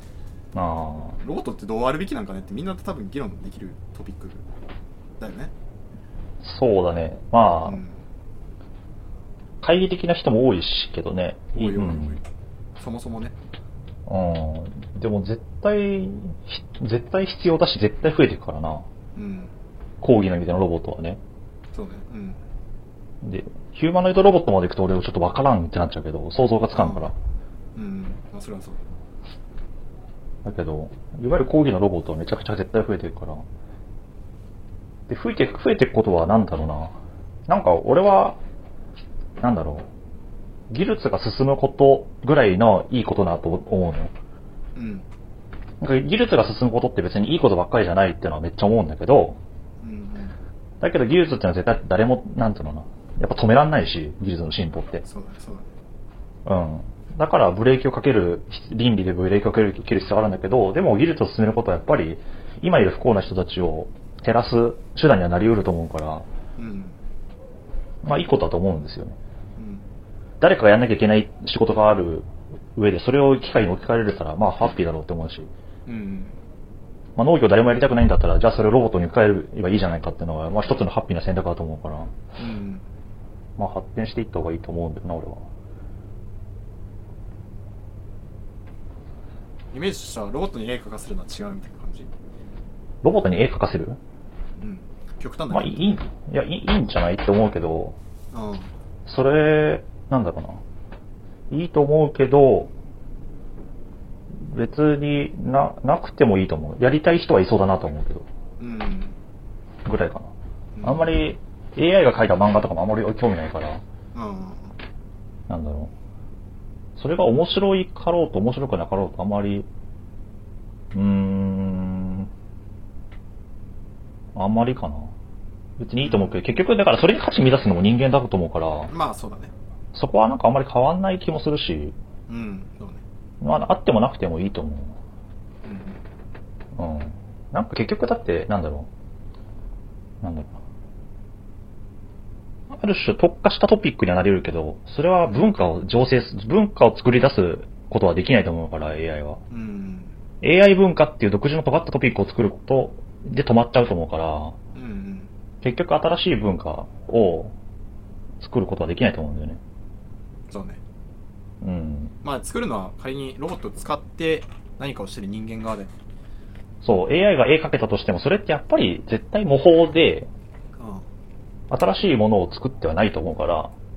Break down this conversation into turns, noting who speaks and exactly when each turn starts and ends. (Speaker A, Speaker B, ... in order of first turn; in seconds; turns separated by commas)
Speaker A: 0.5-1.2, Speaker B: 1.2-4.5, Speaker B: 5.2-5.5, Speaker A: 6.4-7.8, Speaker B: 7.6-8.0, Speaker A: 9.6-12.2, Speaker B: 11.6-12.2, Speaker B: 12.8-13.3, Speaker A: 14.1-18.9, Speaker B: 19.2-19.5, Speaker A: 20.0-21.2, Speaker B: 21.7-22.4, Speaker A: 23.2-27.1, Speaker B: 26.7-27.1, Speaker B: 27.8-28.8, Speaker A: 30.4-33.5, Speaker A: 35.1-38.4, Speaker A: 39.4-39.9, Speaker A: 40.7-44.1, Speaker B: 44.8-45.1, Speaker A: 45.8-49.4, Speaker B: 49.8-50.4, Speaker A: 50.8-55.0, Speaker B: 55.0-55.7, Speaker A: 56.5-66.2, Speaker B: 66.6-67.0, Speaker A: 68.0-69.2, Speaker B: 69.6-69.8, Speaker A: 70.4-75.5, Speaker B: 75.9-76.4, Speaker A: 77.2-82.1, Speaker B: 82.4-82.9, Speaker A: 83.6-85.4, Speaker B: 89.7-92.1, Speaker A: 93.0-94.0, Speaker B: 94.6-95.8, Speaker A: 95.5-98.0, Speaker B: 98.3-98.7, Speaker A: 99.1-100.6, Speaker A: 101.5-102.7, Speaker A: 104.4-108.3, Speaker B: 108.6-109.2, Speaker A: 109.8-113.8, Speaker B: 110.8-111.1, Speaker B: 114.1-114.8, Speaker A: 115.5-115.9, Speaker A: 117.0-119.7, Speaker A: 120.9-122.3, Speaker A: 124.3-125.1, Speaker A: 125.8-128.9, Speaker B: 126.0-126.4, Speaker B: 128.9-129.5, Speaker A: 129.9-132.0, Speaker B: 132.3-133.0, Speaker A: 133.4-135.0, Speaker B: 135.7-136.0, Speaker A: 136.8-138.9, Speaker A: 140.2-140.6, Speaker A: 142.7-149.4, Speaker B: 149.5-150.2, Speaker A: 150.4-154.6, Speaker B: 154.8-155.3, Speaker A: 155.6-157.5, Speaker A: 158.4-159.6, Speaker B: 160.5-160.8, Speaker A: 161.6-162.2, Speaker B: 162.2-165.9, Speaker A: 166.8-170.3, Speaker B: 170.8-171.0, Speaker A: 171.7-173.7